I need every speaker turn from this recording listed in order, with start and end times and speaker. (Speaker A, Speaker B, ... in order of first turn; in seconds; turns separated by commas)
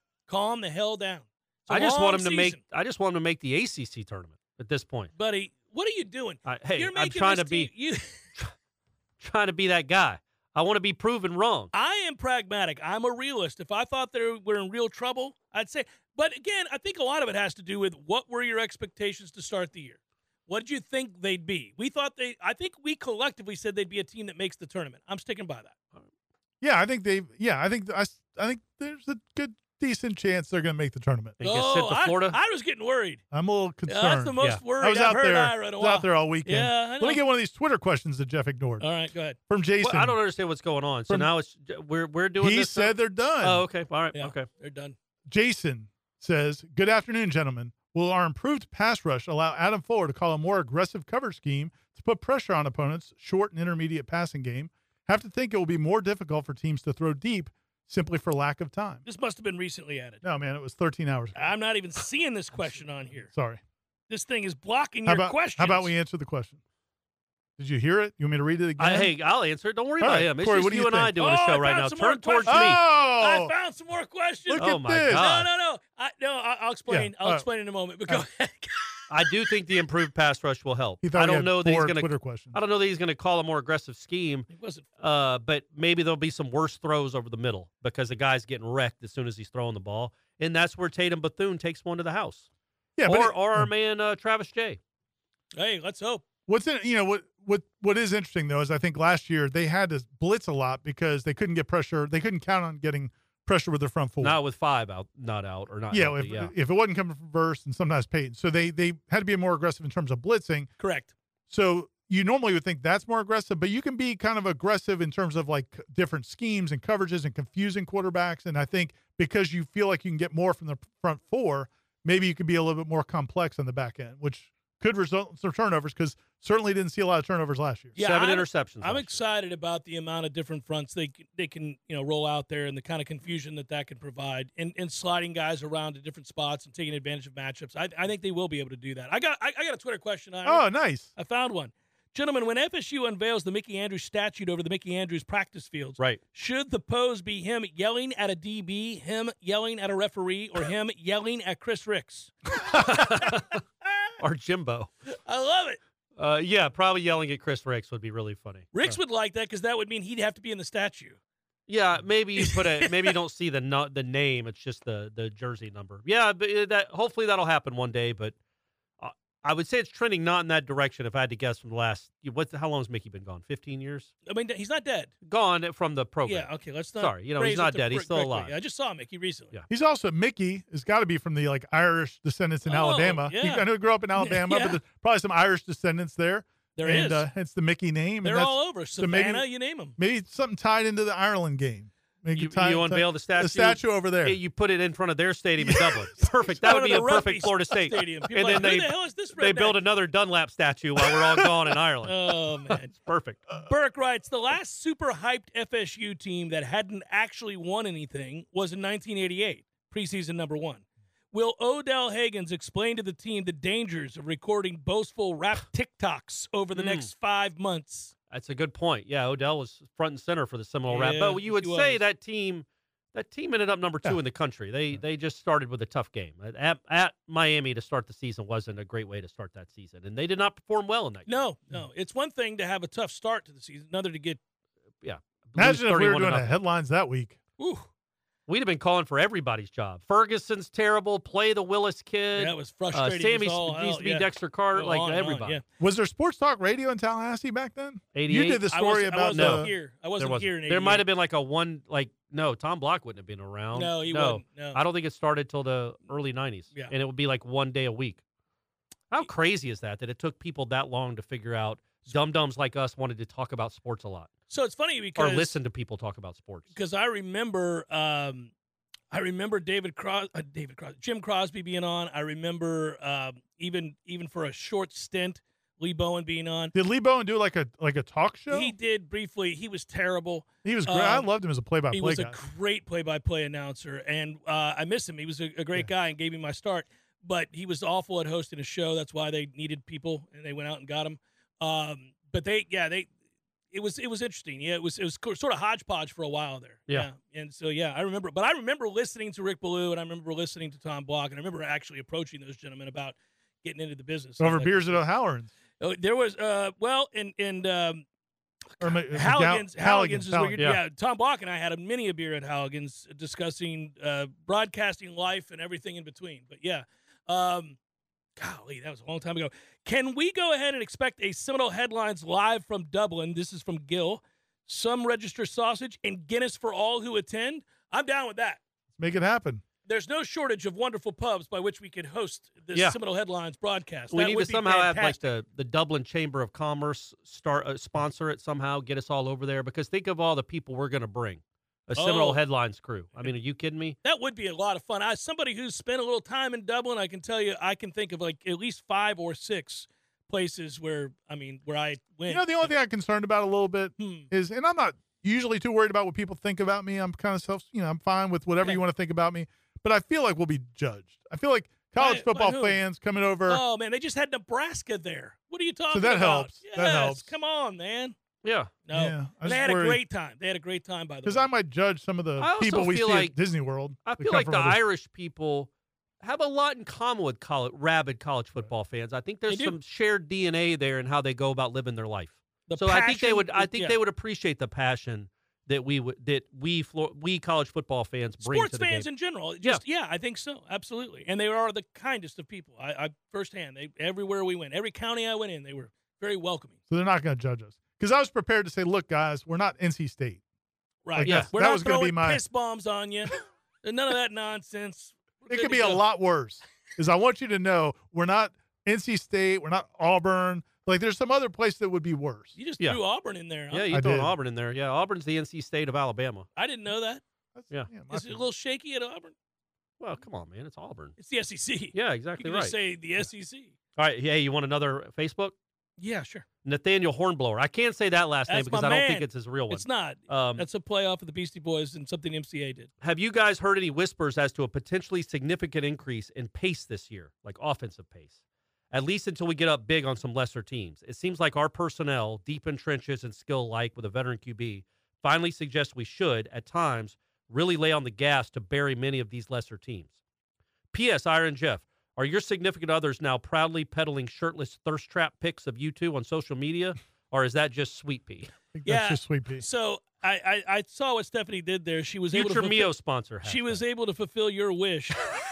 Speaker A: 0.3-2.6, Speaker B: 1.7-5.1, Speaker A: 5.2-8.2, Speaker B: 6.5-7.7, Speaker B: 9.2-11.7, Speaker A: 11.7-25.8, Speaker C: 26.6-31.4, Speaker B: 31.4-32.4, Speaker A: 31.4-33.2, Speaker C: 33.3-38.8, Speaker A: 33.9-37.2, Speaker A: 38.8-39.4, Speaker C: 39.5-40.2, Speaker B: 39.8-44.5, Speaker C: 42.4-43.6, Speaker A: 44.1-45.0, Speaker C: 45.3-59.0, Speaker A: 59.0-60.2, Speaker C: 60.2-61.5, Speaker A: 61.4-63.3, Speaker C: 63.3-63.6, Speaker A: 64.1-65.9, Speaker C: 65.1-66.6, Speaker C: 67.6-69.1, Speaker B: 68.8-72.8, Speaker C: 70.0-71.1, Speaker A: 71.2-79.0, Speaker C: 72.5-73.5, Speaker C: 74.5-75.3, Speaker B: 74.5-75.5, Speaker C: 76.9-77.5, Speaker B: 79.1-84.5, Speaker C: 81.0-82.6, Speaker A: 84.5-84.8, Speaker B: 85.0-92.5, Speaker C: 93.0-93.7, Speaker B: 93.0-94.8, Speaker A: 95.5-96.3, Speaker C: 96.5-104.4, Speaker B: 104.2-106.5, Speaker C: 105.9-110.7, Speaker A: 110.8-111.1, Speaker C: 111.5-128.0, Speaker A: 128.0-153.4, Speaker B: 128.0-129.2, Speaker C: 140.4-141.1, Speaker B: 152.7-153.6, Speaker B: 154.2-154.9, Speaker A: 155.2-155.8, Speaker B: 156.2-159.0, Speaker A: 158.7-161.2, Speaker B: 161.7-168.3, Speaker A: 162.4-162.9, Speaker B: 169.0-174.1, Speaker A: 174.3-175.1, Speaker B: 175.2-178.6, Speaker A: 176.2-179.5, Speaker C: 179.7-189.4, Speaker A: 182.7-184.8, Speaker A: 186.8-187.3, Speaker A: 188.2-190.0, Speaker C: 190.0-194.4, Speaker B: 192.3-202.3, Speaker C: 195.6-196.1, Speaker A: 196.6-199.8, Speaker A: 202.1-202.9, Speaker B: 202.9-203.5, Speaker A: 203.5-218.1, Speaker B: 216.8-217.1, Speaker B: 218.3-231.4, Speaker A: 220.9-222.0, Speaker A: 231.3-234.4, Speaker B: 235.0-236.6, Speaker C: 235.6-237.4, Speaker A: 237.6-237.9, Speaker B: 238.5-245.6, Speaker A: 242.3-245.6, Speaker C: 245.8-249.7, Speaker B: 248.1-248.7, Speaker A: 248.7-251.1, Speaker B: 249.3-258.2, Speaker A: 253.7-254.8, Speaker B: 259.1-264.3, Speaker A: 264.5-265.6, Speaker B: 265.2-266.7, Speaker A: 266.7-268.5, Speaker A: 269.1-276.7, Speaker C: 276.7-278.7, Speaker A: 278.5-281.3, Speaker C: 280.6-282.4, Speaker A: 281.9-293.1, Speaker A: 293.7-305.0, Speaker C: 304.4-305.5, Speaker A: 305.8-308.0, Speaker A: 308.8-317.8, Speaker C: 308.8-310.6, Speaker B: 310.6-310.8, Speaker A: 318.4-328.6, Speaker C: 329.0-329.6, Speaker A: 329.9-335.2, Speaker B: 334.1-344.0, Speaker A: 341.9-342.4, Speaker A: 344.0-352.7, Speaker C: 352.3-363.6, Speaker A: 354.0-354.3, Speaker A: 362.0-362.8, Speaker A: 363.5-368.1, Speaker C: 365.9-367.3, Speaker B: 368.4-368.7, Speaker A: 368.9-371.5, Speaker C: 368.9-370.0, Speaker C: 371.2-374.8, Speaker B: 372.4-373.4, Speaker B: 374.1-375.7, Speaker B: 376.2-389.1, Speaker A: 379.5-379.8, Speaker A: 382.7-384.0, Speaker A: 388.4-396.8, Speaker C: 396.9-400.4, Speaker A: 401.1-406.0, Speaker C: 401.1-402.4, Speaker B: 401.2-401.5, Speaker C: 405.5-412.6, Speaker A: 412.6-413.9, Speaker B: 413.7-416.5, Speaker C: 413.9-414.4, Speaker A: 416.6-417.2, Speaker C: 417.6-418.4, Speaker A: 418.1-419.3, Speaker B: 420.0-421.2, Speaker A: 421.2-423.7, Speaker B: 421.9-422.8, Speaker B: 424.0-425.6, Speaker A: 426.0-426.4, Speaker B: 426.6-430.7, Speaker A: 428.5-432.9, Speaker B: 433.0-438.4, Speaker B: 438.9-450.1, Speaker B: 450.9-458.5, Speaker C: 458.8-459.6, Speaker A: 458.9-462.9, Speaker B: 462.3-463.8, Speaker A: 463.4-465.3